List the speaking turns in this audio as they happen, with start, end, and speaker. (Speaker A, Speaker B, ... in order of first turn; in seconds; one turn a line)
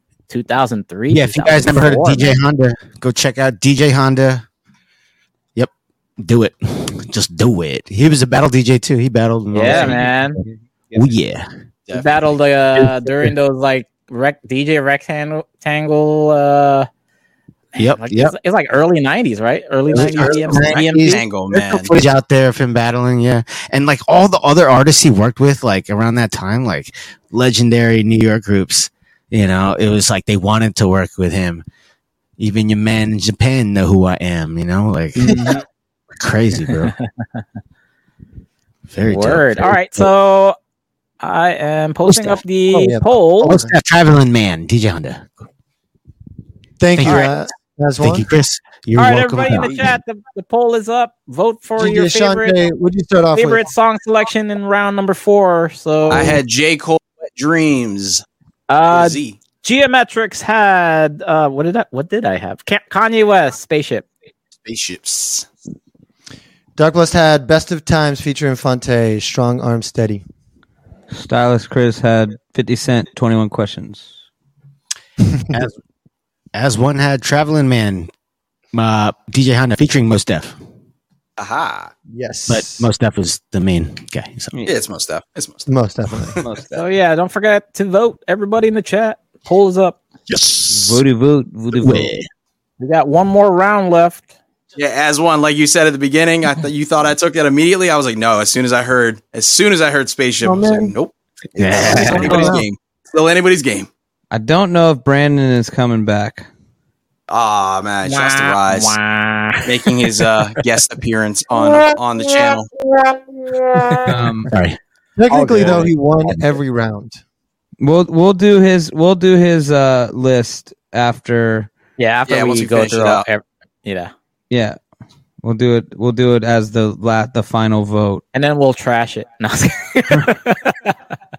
Speaker A: 0.3-2.4
Speaker B: 1.1-4.4
Speaker B: 5.5-10.4
Speaker A: 9.5-10.4
Speaker C: 9.6-11.1
Speaker B: 10.9-11.5
Speaker D: 11.9-12.1
Speaker A: 11.9-16.9
Speaker B: 12.7-13.3
Speaker A: 17.7-21.2
Speaker B: 17.8-18.3
Speaker B: 19.9-31.6
Speaker E: 19.9-20.3
Speaker D: 20.3-21.9
Speaker B: 32.4-35.6
Speaker A: 35.2-35.6
Speaker B: 36.2-36.9
Speaker B: 38.9-40.1
Speaker A: 39.0-40.6
Speaker A: 41.2-43.6
Speaker B: 42.0-42.4
Speaker E: 42.7-43.7
Speaker B: 43.4-45.3
Speaker E: 46.8-48.3
Speaker B: 47.0-47.4
Speaker A: 47.0-47.3
Speaker B: 48.0-50.0
Speaker A: 49.0-52.6
Speaker E: 51.8-53.7
Speaker A: 53.3-56.4
Speaker D: 56.1-58.2
Speaker A: 58.7-64.1
Speaker D: 58.9-59.4
Speaker D: 64.7-65.5
Speaker E: 66.8-70.2
Speaker C: 71.1-74.1
Speaker B: 75.5-75.8
Speaker B: 76.5-78.1
Speaker B: 78.7-80.6
Speaker D: 81.4-81.9
Speaker E: 82.1-82.9
Speaker B: 82.5-84.5
Speaker D: 84.6-85.7
Speaker E: 85.7-86.4
Speaker C: 86.4-86.8
Speaker A: 86.7-90.0
Speaker B: 90.3-91.0
Speaker C: 90.7-92.1
Speaker B: 91.7-92.3
Speaker A: 92.8-94.3
Speaker D: 94.8-103.9
Speaker E: 100.4-100.9
Speaker B: 101.6-102.6
Speaker E: 101.9-102.6
Speaker C: 102.1-102.5
Speaker C: 104.3-106.5
Speaker D: 107.3-109.0
Speaker A: 108.0-110.5
Speaker D: 109.7-112.7
Speaker A: 113.8-114.0
Speaker C: 114.0-114.5
Speaker B: 114.5-114.8
Speaker E: 115.2-117.2
Speaker B: 115.3-116.6
Speaker C: 117.8-121.7
Speaker A: 122.0-124.1
Speaker D: 122.2-123.2
Speaker C: 124.5-124.8
Speaker C: 125.4-128.2
Speaker A: 128.3-130.9